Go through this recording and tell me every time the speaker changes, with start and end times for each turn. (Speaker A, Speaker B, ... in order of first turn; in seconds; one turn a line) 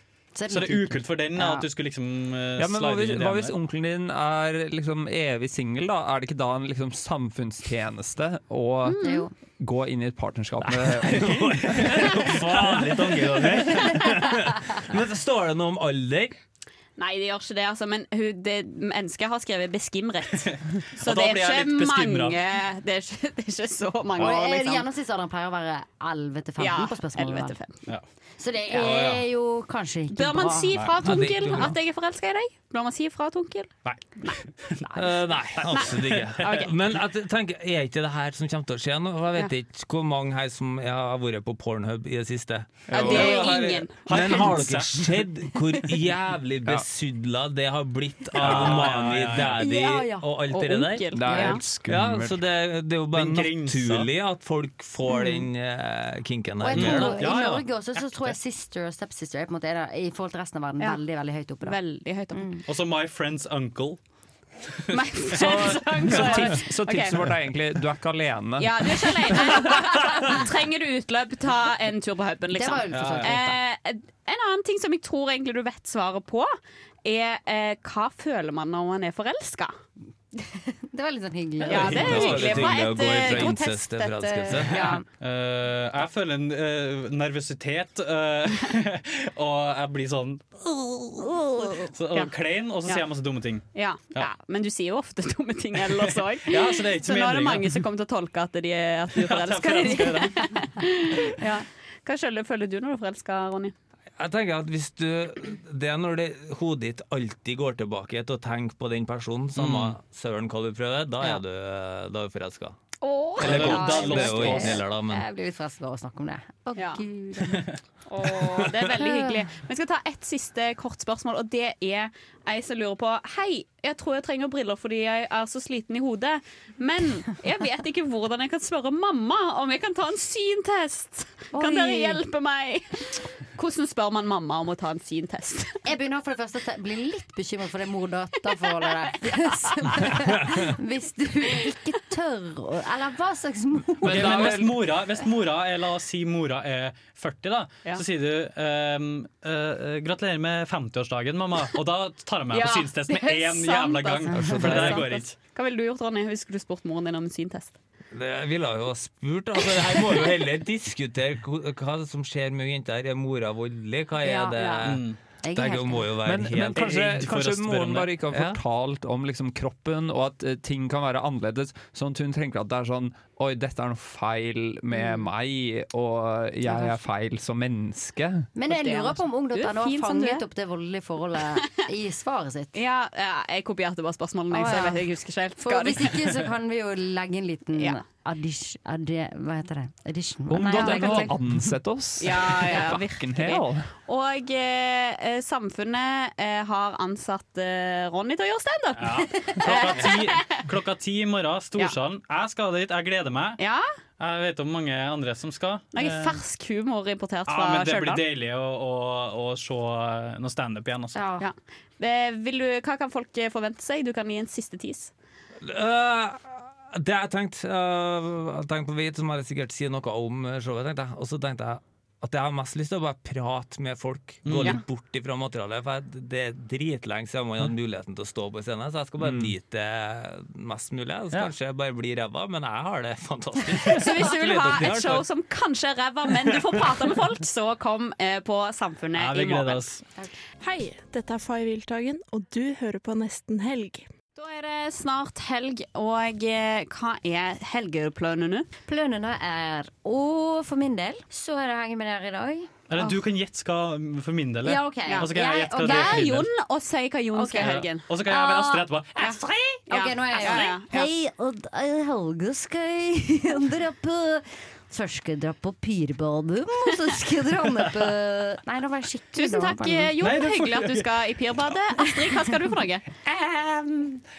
Speaker A: 0.3-1.6
Speaker B: 0.5-3.5
Speaker C: 2.6-12.2
Speaker D: 8.8-9.2
Speaker A: 9.0-9.3
Speaker E: 10.7-16.4
Speaker B: 11.2-12.0
Speaker B: 13.3-13.5
Speaker D: 17.0-24.9
Speaker B: 20.5-22.4
Speaker A: 24.2-27.6
Speaker D: 26.6-27.8
Speaker A: 28.4-30.8
Speaker B: 28.7-29.2
Speaker D: 30.1-34.4
Speaker E: 31.0-31.8
Speaker B: 33.9-36.7
Speaker E: 35.0-43.5
Speaker D: 35.7-36.7
Speaker B: 42.9-45.2
Speaker D: 42.9-44.2
Speaker E: 44.1-57.3
Speaker B: 48.3-49.6
Speaker A: 49.6-50.3
Speaker D: 50.5-51.6
Speaker C: 51.1-52.4
Speaker B: 53.1-54.1
Speaker A: 55.1-55.4
Speaker A: 56.6-61.8
Speaker B: 56.7-58.3
Speaker D: 61.6-62.5
Speaker A: 62.3-62.6
Speaker B: 62.7-64.0
Speaker D: 64.9-67.2
Speaker B: 65.3-66.5
Speaker C: 65.4-69.6
Speaker D: 68.6-76.5
Speaker A: 72.5-73.6
Speaker B: 72.9-73.3
Speaker D: 77.0-79.7
Speaker A: 80.5-85.0
Speaker D: 81.7-85.0
Speaker E: 81.8-84.8
Speaker B: 85.2-90.5
Speaker D: 90.8-92.3
Speaker B: 91.7-94.3
Speaker D: 93.7-103.7
Speaker B: 95.8-97.9
Speaker B: 99.1-100.5
Speaker E: 104.2-112.8
Speaker B: 109.5-110.0
Speaker D: 113.0-114.5
Speaker E: 113.4-115.2
Speaker B: 113.4-114.8
Speaker A: 113.8-117.7
Speaker D: 116.8-117.0
Speaker D: 118.1-135.8
Speaker A: 118.9-119.4
Speaker A: 131.5-132.2
Speaker A: 135.9-144.6
Speaker C: 144.0-144.8
Speaker B: 144.0-155.4
Speaker D: 152.5-157.8
Speaker E: 154.3-155.1
Speaker E: 158.1-167.2
Speaker D: 164.2-164.9
Speaker B: 164.8-165.2
Speaker A: 165.4-166.1
Speaker C: 166.2-178.5
Speaker B: 166.7-168.1
Speaker E: 168.3-168.6
Speaker D: 174.9-175.3
Speaker A: 178.6-182.7
Speaker D: 178.7-180.4
Speaker D: 182.7-186.3
Speaker A: 184.5-185.1
Speaker A: 185.6-191.6
Speaker C: 190.5-193.9
Speaker D: 190.7-191.3
Speaker D: 192.2-200.6
Speaker B: 199.0-203.6
Speaker D: 203.6-203.9
Speaker B: 204.2-206.4
Speaker D: 205.9-208.2
Speaker B: 207.5-211.2
Speaker A: 211.2-211.5
Speaker D: 211.4-215.1
Speaker E: 215.6-235.2
Speaker B: 224.4-224.8
Speaker C: 229.2-229.5
Speaker D: 234.0-239.9
Speaker B: 234.3-235.3
Speaker B: 239.2-240.0
Speaker F: 240.6-244.1
Speaker D: 244.4-248.7
Speaker A: 248.9-252.7
Speaker B: 252.9-256.5
Speaker A: 254.6-256.3
Speaker D: 255.1-258.1
Speaker A: 257.4-270.1
Speaker B: 257.5-259.8
Speaker D: 259.9-261.1
Speaker B: 260.3-260.7
Speaker D: 269.4-273.1
Speaker B: 270.2-271.1
Speaker B: 273.3-274.2